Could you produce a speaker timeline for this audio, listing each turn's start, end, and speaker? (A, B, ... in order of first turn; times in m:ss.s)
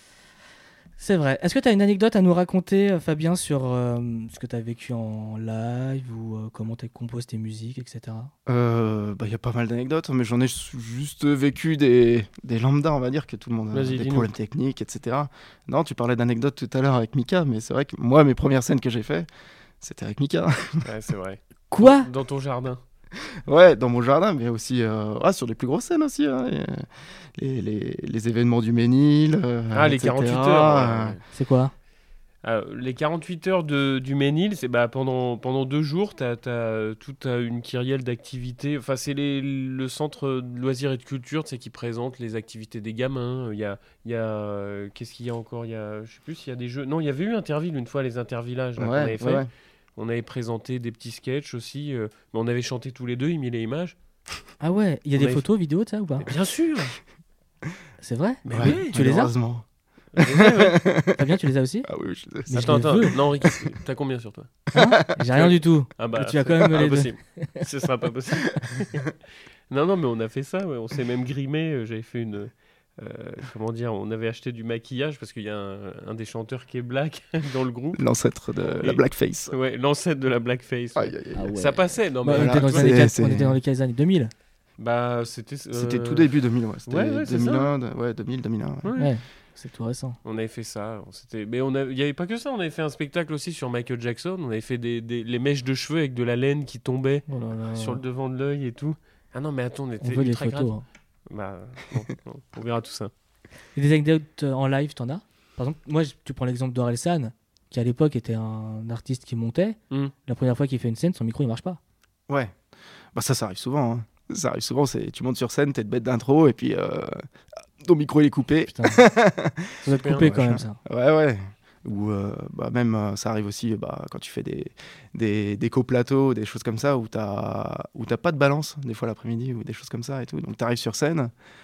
0:01.0-0:08.3 A
0:08.4-0:19.3 B
0:13.7-0:14.3 C
0:19.8-0:20.9 B
0:20.8-0:22.8 C
0:21.7-0:22.1 A
0:23.4-0:31.2 B
0:29.7-0:31.2 C
0:31.3-0:31.7 A
0:32.4-0:53.9 C
0:48.8-0:49.5 B
0:54.6-0:56.3 A
0:55.2-0:55.4 C
0:56.2-0:57.0 C
0:58.0-0:59.3 A
0:58.4-0:58.9 C
0:58.5-0:59.6 B
1:00.1-1:00.8 C
1:00.2-1:01.2 B
1:01.1-1:01.9 A
1:01.8-1:03.6 B
1:02.5-1:03.1 A
1:02.5-1:04.6 C
1:04.7-1:07.6 A
1:05.3-1:09.1 C
1:09.7-1:18.0 C
1:17.9-1:19.5 B
1:18.6-1:22.9 C
1:20.9-1:21.6 B
1:21.3-1:24.3 A
1:22.3-1:23.6 B
1:24.8-1:26.3 C
1:25.7-1:28.9 B
1:26.9-1:27.7 C
1:28.8-1:29.1 C
1:29.0-1:30.2 A
1:30.2-1:40.7 C
1:37.3-1:38.0 A
1:40.0-1:40.8 A
1:41.3-1:43.1 C
1:43.8-1:51.8 A
1:52.3-1:52.6 B
1:53.1-1:57.2 B
1:57.8-2:11.3 B
1:58.7-1:59.0 A
1:59.8-2:00.8 A
2:00.0-2:00.3 C